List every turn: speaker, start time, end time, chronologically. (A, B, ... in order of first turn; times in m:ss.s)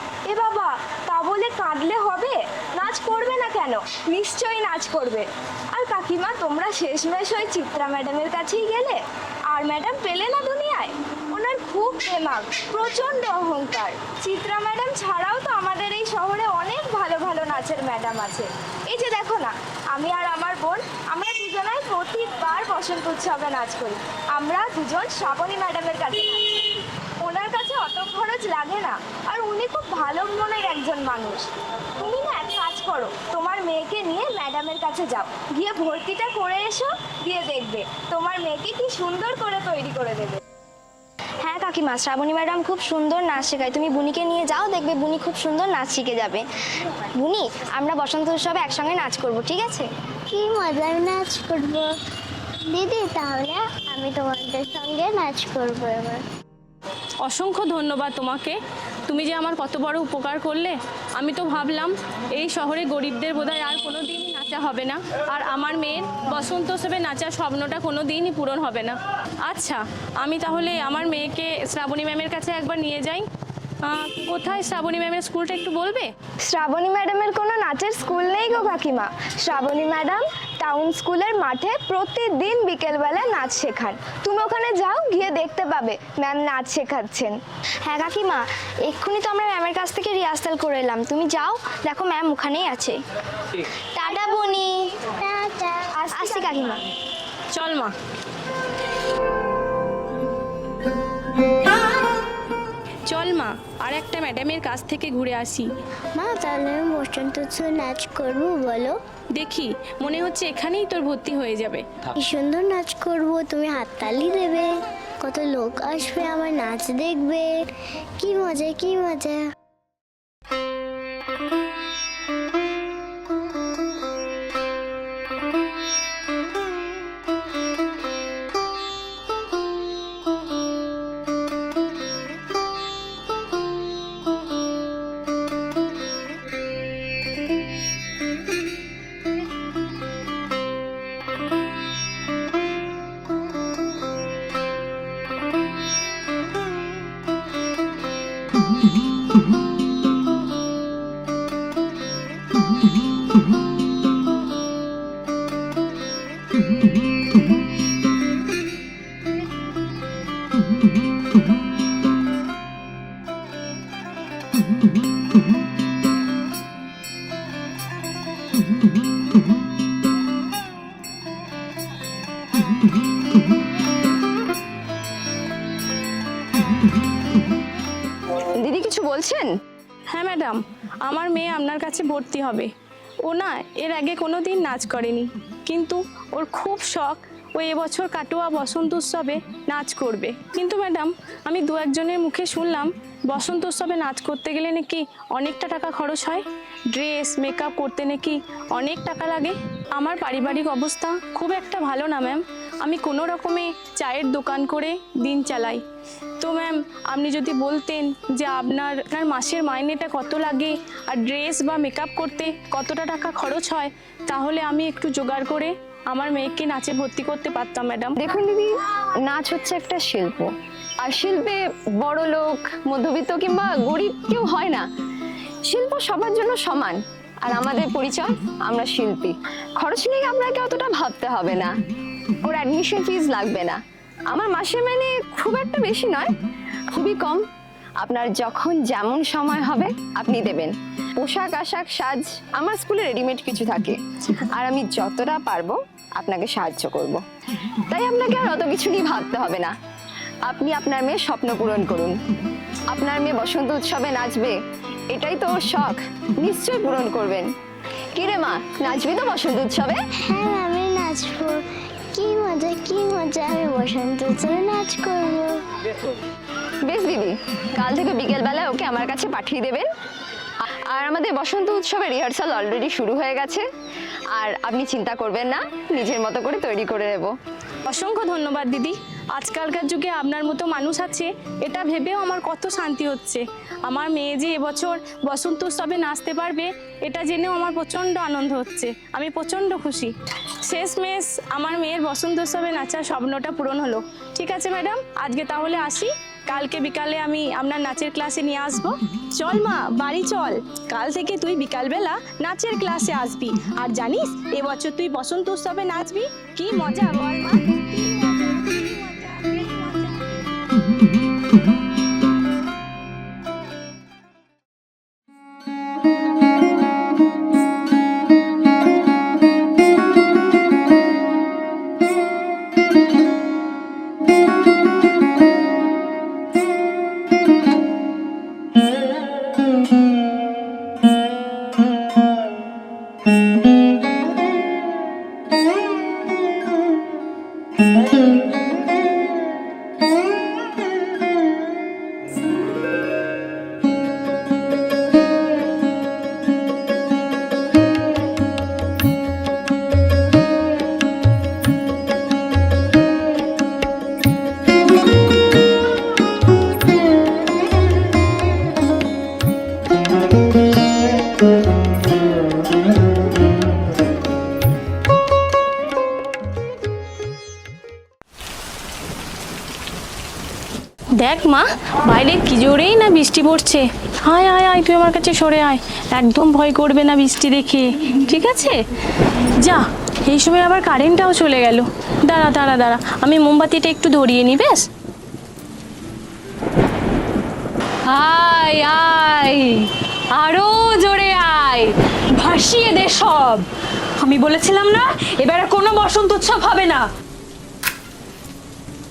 0:00.3-0:40.4 A
0:41.4-0:46.4 A
0:47.2-0:49.9 A
0:50.3-0:51.9 B
0:52.7-0:56.2 B
0:57.2-1:13.2 C
1:13.8-1:16.1 C
1:16.5-1:33.0 A
1:34.0-1:34.8 A
1:35.2-1:36.5 B
1:36.0-1:36.8 A
1:37.5-1:37.9 C
1:43.1-1:45.7 C
1:46.2-1:49.0 B
1:49.4-1:51.9 C
1:52.2-1:57.6 B
1:58.2-1:59.4 B
2:58.6-2:59.5 D
3:00.1-3:02.7 C
3:03.2-3:25.8 C
3:26.4-3:38.2 C
3:38.2-3:40.5 D
3:41.0-3:44.8 D
3:45.7-3:51.7 D
3:52.4-3:53.8 D
3:54.3-3:56.4 D
3:56.9-3:57.4 D
3:58.0-4:07.2 D
4:07.9-4:09.7 D
4:10.5-4:12.2 D
4:12.9-4:14.6 D
4:15.1-4:17.5 D
4:18.2-4:20.0 D
4:20.2-4:25.6 B
4:26.9-4:29.9 D
4:30.9-4:33.6 D
4:34.3-4:37.3 D
4:37.9-4:50.1 C
4:50.6-5:10.3 C
6:11.2-6:18.8 C
6:19.6-6:24.9 C
6:28.1-6:33.7 E
6:34.2-6:37.0 E